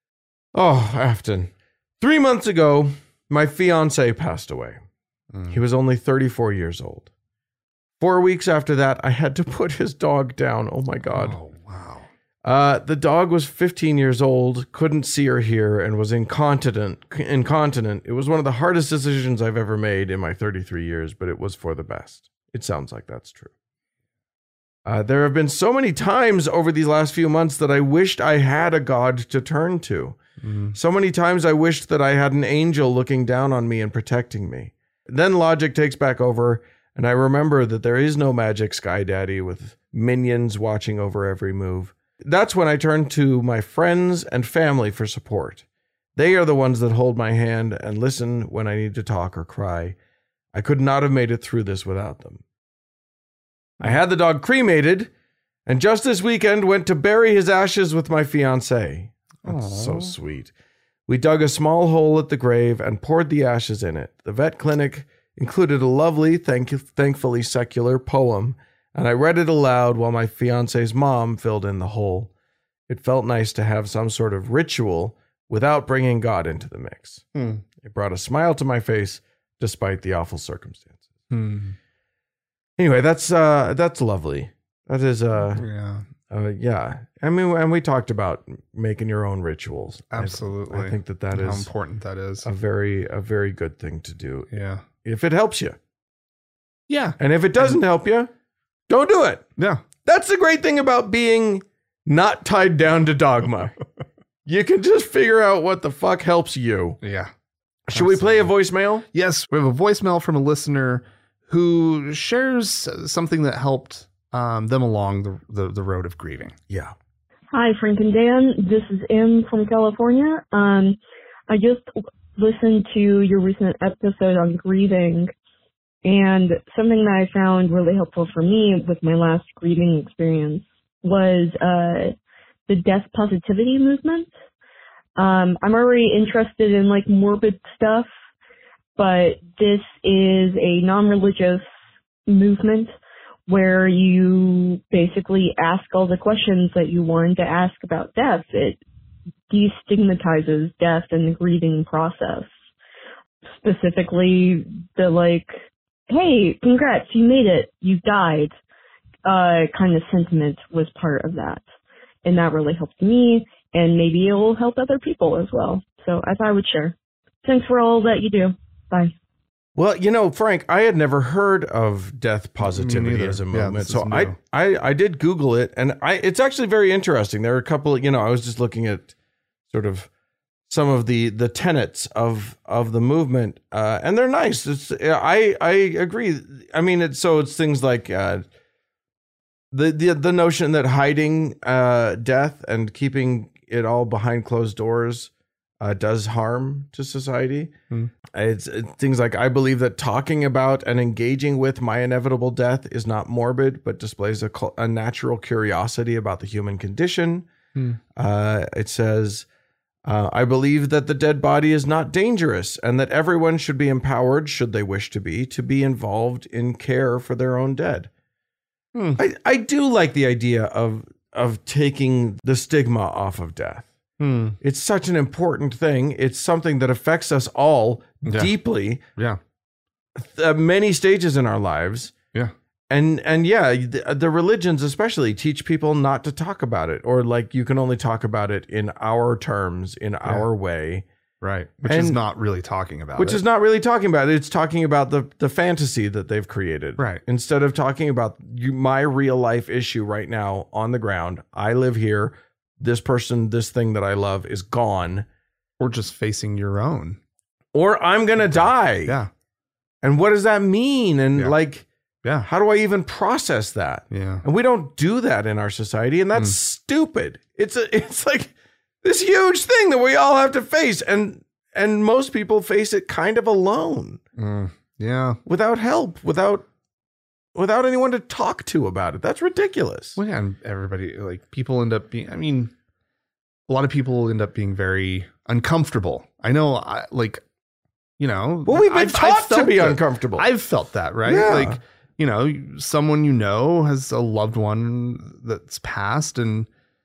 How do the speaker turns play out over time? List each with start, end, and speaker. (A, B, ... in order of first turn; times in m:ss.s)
0:00.5-0:04.8 A
0:05.3-0:05.6 B
0:05.5-0:07.1 A
0:08.0-0:11.4 A
0:11.1-0:12.1 B
0:12.4-0:23.5 A
0:24.9-0:30.2 A
0:30.4-0:30.8 B
0:30.7-0:45.6 A
0:46.2-0:50.0 A
0:50.5-0:52.4 A
0:53.8-0:55.1 A
0:55.7-1:00.5 A
0:59.4-1:00.2 B
1:01.1-1:12.3 A
1:12.9-1:17.2 A
1:17.3-1:17.6 B
1:17.8-1:21.0 A
1:21.3-1:21.8 B
1:22.8-1:25.6 A
1:25.5-1:26.0 B
1:26.3-1:31.7 A
1:30.1-1:32.5 B
1:32.4-1:34.5 A
1:34.5-1:34.8 B
1:35.0-1:35.8 A
1:36.9-1:37.8 B
1:37.2-1:38.3 A
1:38.9-1:39.4 A
1:39.6-1:39.8 B
1:40.0-1:43.8 A
1:44.5-1:47.0 A
1:47.0-1:47.3 B
1:47.9-1:48.5 B
1:47.9-1:49.1 A
1:49.1-1:56.6 B
1:56.7-1:56.9 A
1:57.5-2:01.0 C
2:01.5-2:05.3 C
2:06.0-2:12.1 C
2:12.7-2:14.3 C
2:15.2-2:18.1 C
2:19.0-2:21.6 C
2:22.3-2:22.9 C
2:23.5-2:28.8 C
2:29.5-2:32.5 C
2:33.6-2:35.5 C
2:36.1-2:38.5 C
2:39.2-2:41.6 C
2:42.2-2:49.1 C
2:49.8-2:59.1 A
2:52.6-2:54.4 B
2:59.7-3:00.1 A
3:00.7-3:08.4 A
3:09.7-3:17.8 A
3:18.3-3:27.5 A
3:27.8-3:28.0 B
3:28.2-3:29.5 A
3:30.1-3:38.1 A
3:38.9-3:39.2 B
3:39.2-3:43.9 A
3:44.2-3:44.6 B
3:44.6-3:49.0 A
3:48.2-3:48.5 B
3:50.2-3:52.1 A
3:52.9-4:01.1 A
4:01.4-4:03.4 B
4:01.9-4:02.2 A
4:03.2-4:15.3 A
4:07.0-4:07.2 B
4:15.8-4:17.2 B
4:17.7-4:19.2 A
4:18.4-4:19.3 B
4:20.0-4:21.9 A
4:22.2-4:22.5 B
4:22.4-4:34.2 A
4:24.1-4:24.4 B
4:34.4-4:35.4 B
4:35.5-4:36.7 A
4:37.6-4:40.2 A
4:40.2-4:42.7 B
4:43.7-4:47.4 B
4:48.2-4:56.7 B
4:48.7-4:50.5 A
4:51.2-4:51.8 A